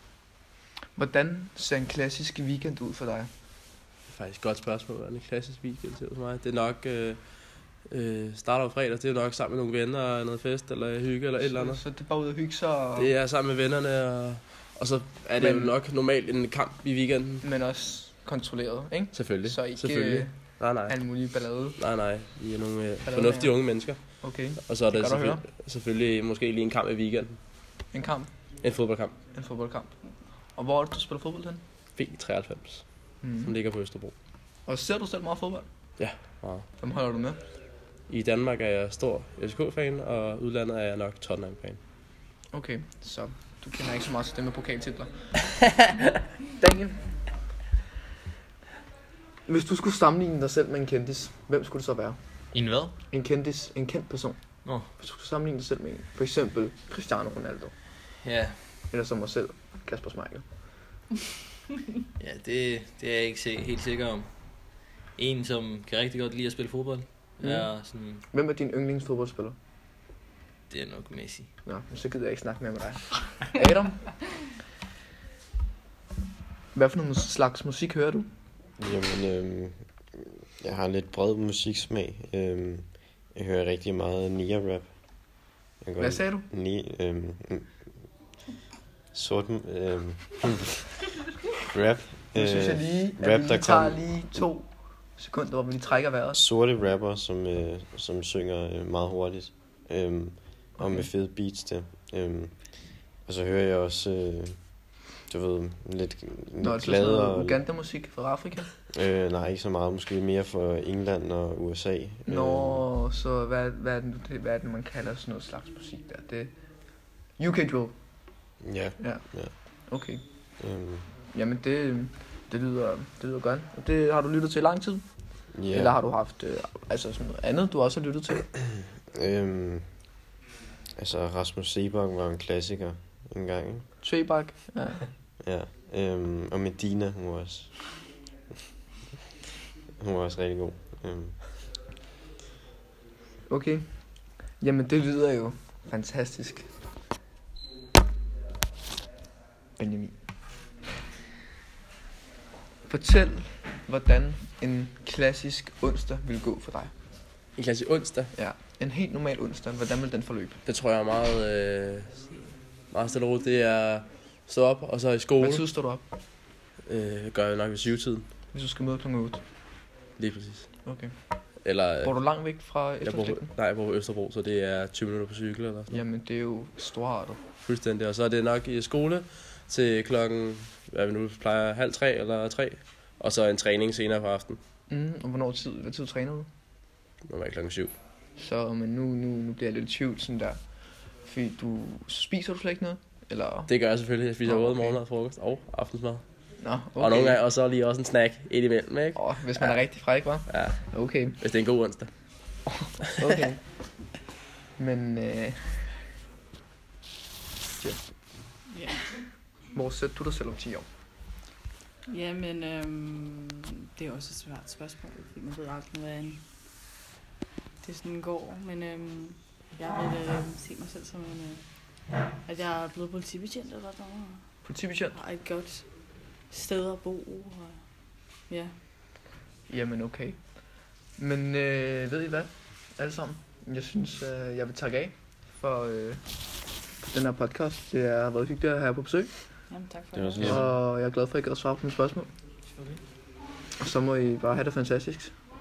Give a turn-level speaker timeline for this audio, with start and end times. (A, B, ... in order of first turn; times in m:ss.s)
0:01.0-0:03.3 A
0:04.1-0:11.8 B
0:11.4-0:13.1 A
0:13.0-0:17.4 B
0:15.4-0:15.8 A
0:17.4-0:21.8 A
0:19.1-0:27.4 B
0:23.0-0:25.4 A
0:27.9-0:28.3 A
0:28.6-0:29.2 B
0:29.3-0:30.0 A
0:30.5-0:31.6 A
0:32.0-0:34.1 B
0:33.2-0:33.5 A
0:34.7-0:35.7 A
0:36.0-0:36.7 B
0:36.8-0:37.4 A
0:38.1-0:41.8 B
0:42.5-0:45.3 A
0:46.5-0:47.1 A
0:49.5-0:52.2 A
0:52.5-0:53.0 C
0:53.1-0:57.7 A
0:54.6-0:54.9 C
0:58.2-0:58.6 C
0:58.9-1:00.4 A
1:02.2-1:08.2 C
1:07.4-1:09.6 A
1:10.7-1:11.5 C
1:11.6-1:14.2 A
1:16.7-1:18.3 A
1:18.8-1:28.1 D
1:26.0-1:26.5 A
1:29.1-1:30.9 D
1:31.7-1:34.4 D
1:32.3-1:36.4 A
1:36.3-1:47.6 D
1:40.8-1:41.1 A
1:46.6-1:48.7 A
1:48.9-1:52.9 D
1:52.3-1:56.5 A
1:57.1-1:58.2 A
1:58.6-1:59.5 D
1:59.0-2:00.2 A
2:00.6-2:01.1 D
2:01.3-2:08.6 A
2:05.5-2:06.0 D
2:09.1-2:10.2 D
2:11.0-2:13.9 D
2:14.0-2:15.1 A
2:15.4-2:18.0 D
2:20.0-2:21.5 D
2:23.5-2:26.7 A
2:29.8-2:30.2 A
2:32.9-2:36.9 A
2:37.6-2:38.3 B
2:38.3-2:40.6 A
2:40.6-2:45.7 B
2:45.4-2:46.0 A
2:46.8-2:48.3 B
2:48.5-2:49.4 A
2:50.2-2:50.7 B
2:50.8-2:51.1 A
2:51.6-2:52.3 B
2:52.0-2:53.5 A
2:53.0-2:55.9 B
2:55.9-2:57.4 A
2:57.6-3:04.6 B
3:04.9-3:06.5 A
3:07.2-3:07.9 B
3:08.4-3:13.7 A
3:13.7-3:16.2 B
3:14.4-3:15.0 A
3:16.6-3:17.4 A
3:17.0-3:22.5 B
3:19.2-3:21.4 A
3:22.8-3:23.6 A
3:24.8-3:25.9 A
3:28.7-3:29.4 E
3:29.7-3:30.9 A
3:32.1-3:36.5 E
3:37.8-3:48.8 E
3:44.6-3:45.2 A
3:49.7-3:56.3 A
3:57.0-3:59.3 A
3:59.7-4:00.4 E
4:00.1-4:00.7 D
4:00.4-4:02.3 A
4:02.8-4:03.0 C
4:03.8-4:05.3 A